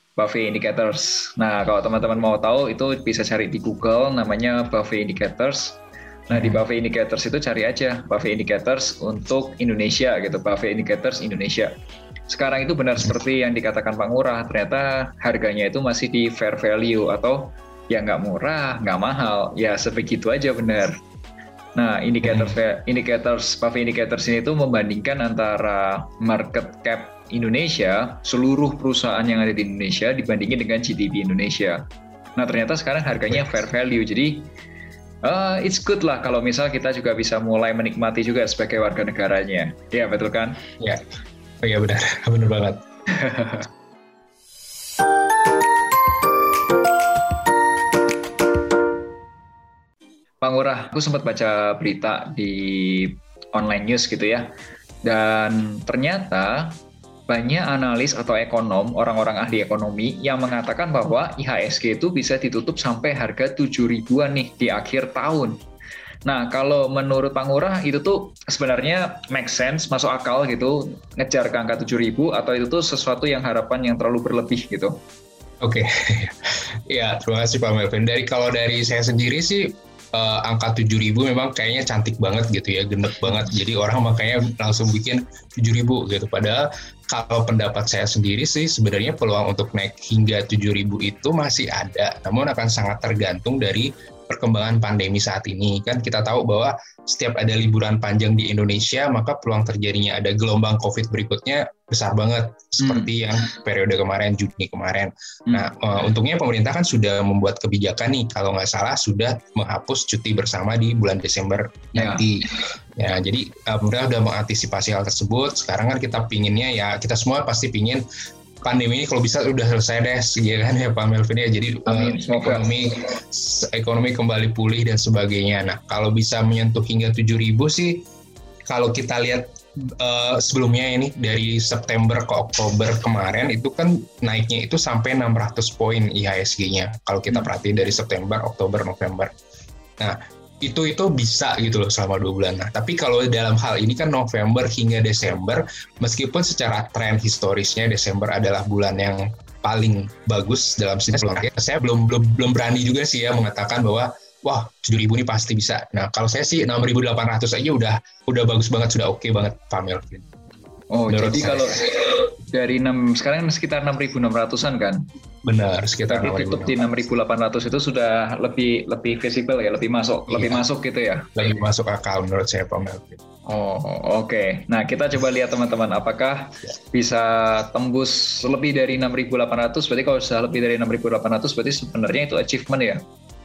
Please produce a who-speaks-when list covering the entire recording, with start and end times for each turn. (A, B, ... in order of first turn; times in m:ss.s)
0:00.2-0:11.7 A
0:06.3-0:06.6 B
0:12.3-0:21.0 A
0:21.8-0:31.8 A
0:22.2-0:22.6 B
0:32.4-0:34.5 A
0:35.2-0:40.6 A
0:41.6-0:42.8 B
0:43.2-0:43.7 A
0:50.4-0:54.5 A
0:55.0-1:05.6 A
1:06.3-1:15.0 A
1:15.6-1:58.0 B
1:42.8-1:43.1 A
1:52.0-1:52.2 A
1:58.6-2:08.1 B
2:01.9-2:02.7 A
2:08.7-2:19.3 B
2:20.0-2:40.3 B
2:40.9-2:45.1 A
2:41.1-2:41.8 B
2:45.4-2:46.8 B
2:46.1-2:51.3 A
2:50.3-2:50.6 B
2:51.4-2:53.2 B
2:53.5-3:03.0 A